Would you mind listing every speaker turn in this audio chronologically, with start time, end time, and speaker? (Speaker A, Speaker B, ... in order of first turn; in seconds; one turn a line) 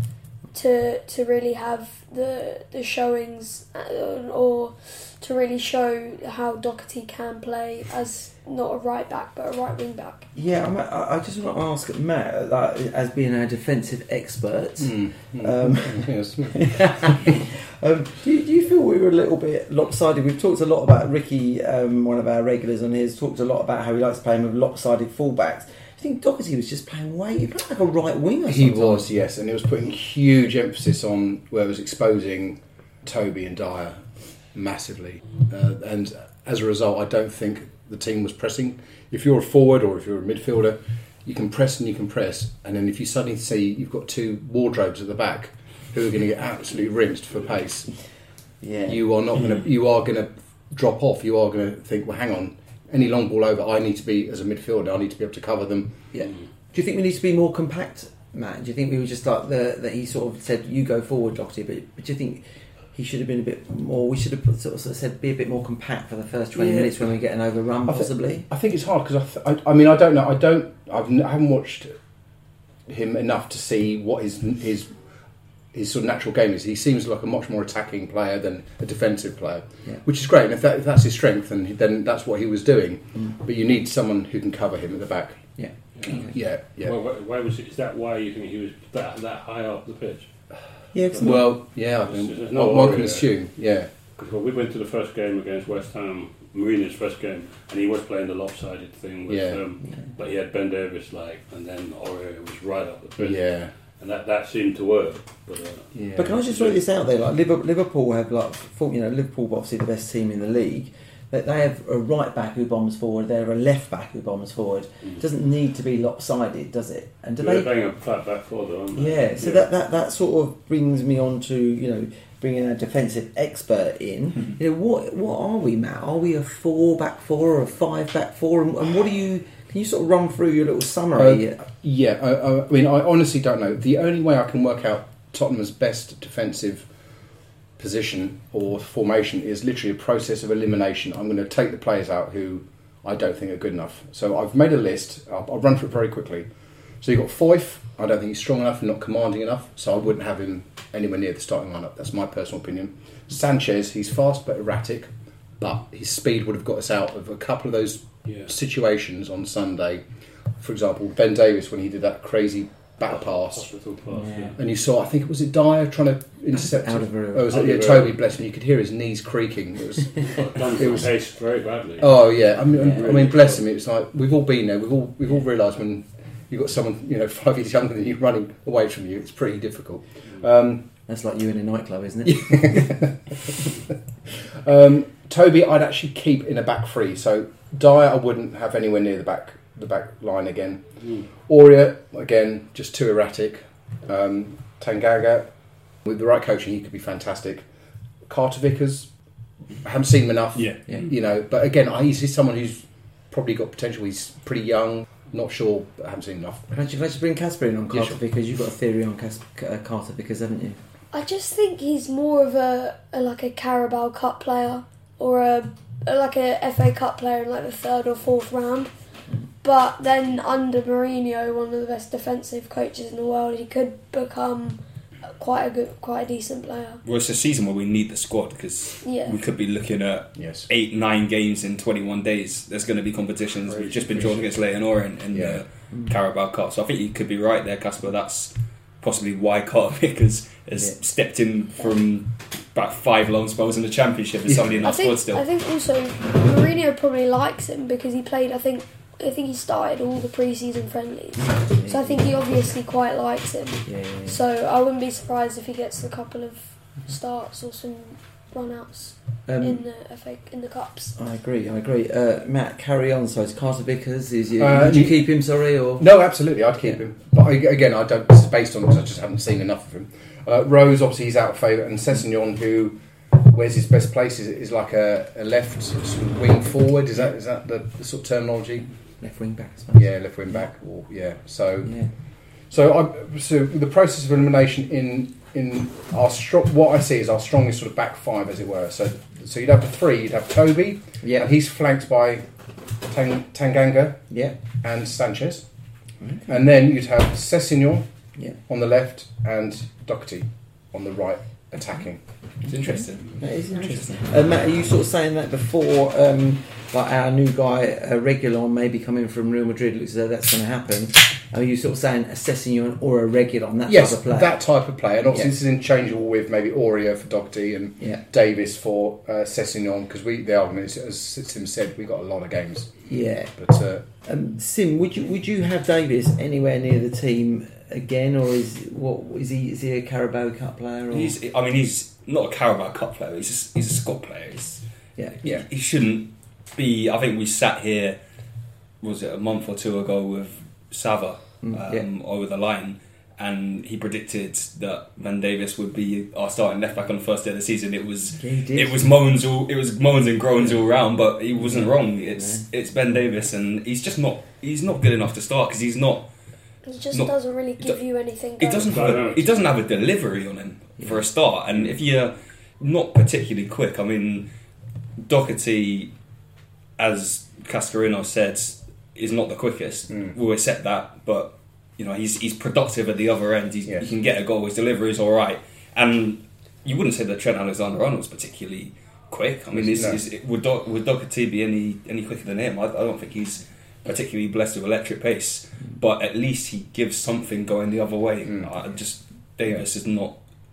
Speaker A: 0.5-10.2
Speaker B: 10.3-29.1
Speaker C: 14.8-17.3
Speaker C: 28.5-34.0
Speaker C: 34.5-47.9
Speaker B: 48.6-49.0
Speaker C: 48.9-56.0
Speaker B: 56.1-68.5
Speaker C: 66.6-66.9
Speaker C: 67.9-71.9
Speaker C: 72.9-74.9
Speaker C: 75.7-85.4
Speaker B: 85.6-86.3
Speaker D: 86.0-90.3
Speaker C: 86.1-86.9
Speaker B: 90.9-91.5
Speaker C: 91.2-93.9
Speaker D: 92.0-93.3
Speaker D: 94.2-106.8
Speaker C: 99.3-99.6
Speaker C: 103.2-103.7
Speaker C: 105.9-106.3
Speaker B: 106.2-117.7
Speaker D: 117.4-119.7
Speaker B: 118.9-131.6
Speaker C: 131.2-136.9
Speaker C: 137.8-146.5
Speaker C: 147.0-160.0
Speaker C: 160.6-163.7
Speaker D: 163.0-164.6
Speaker B: 164.1-164.5
Speaker C: 164.6-171.1
Speaker B: 166.5-167.6
Speaker D: 167.5-168.2
Speaker D: 170.2-173.6
Speaker C: 172.0-180.8
Speaker B: 172.7-173.1
Speaker B: 181.1-183.0
Speaker C: 182.2-183.4
Speaker C: 184.6-190.8
Speaker C: 191.4-195.5
Speaker C: 196.0-197.6
Speaker C: 198.3-199.1
Speaker C: 199.8-206.7
Speaker B: 206.7-210.8
Speaker C: 207.9-208.2
Speaker A: 211.1-218.9
Speaker A: 219.6-224.8
Speaker A: 225.3-227.0
Speaker E: 227.0-245.4
Speaker A: 229.0-229.4
Speaker C: 230.3-230.7
Speaker D: 233.7-234.4
Speaker C: 235.3-235.6
Speaker A: 244.8-261.1
Speaker B: 251.4-252.4
Speaker B: 253.9-254.4
Speaker B: 259.5-259.8
Speaker B: 261.2-266.1
Speaker C: 264.6-265.2
Speaker C: 266.0-278.9
Speaker B: 279.2-280.1
Speaker C: 279.9-281.9
Speaker B: 281.8-282.1
Speaker C: 282.7-292.4
Speaker B: 291.2-291.5
Speaker C: 293.1-294.2
Speaker B: 294.3-294.6
Speaker C: 294.8-295.6
Speaker B: 296.2-296.5
Speaker C: 296.5-298.0
Speaker C: 298.7-302.2
Speaker E: 302.6-304.1
Speaker B: 302.7-314.6
Speaker C: 313.9-323.0
Speaker B: 323.1-323.5
Speaker C: 323.6-324.1
Speaker B: 324.2-331.4
Speaker E: 331.1-334.8
Speaker E: 335.4-338.2
Speaker E: 339.0-356.3
Speaker B: 341.6-342.1
Speaker B: 348.4-349.0
Speaker B: 351.6-352.6
Speaker A: 356.9-359.0
Speaker E: 357.1-358.0
Speaker E: 358.6-364.5
Speaker D: 358.9-359.7
Speaker E: 365.2-366.1
Speaker E: 367.0-390.4
Speaker C: 379.7-380.2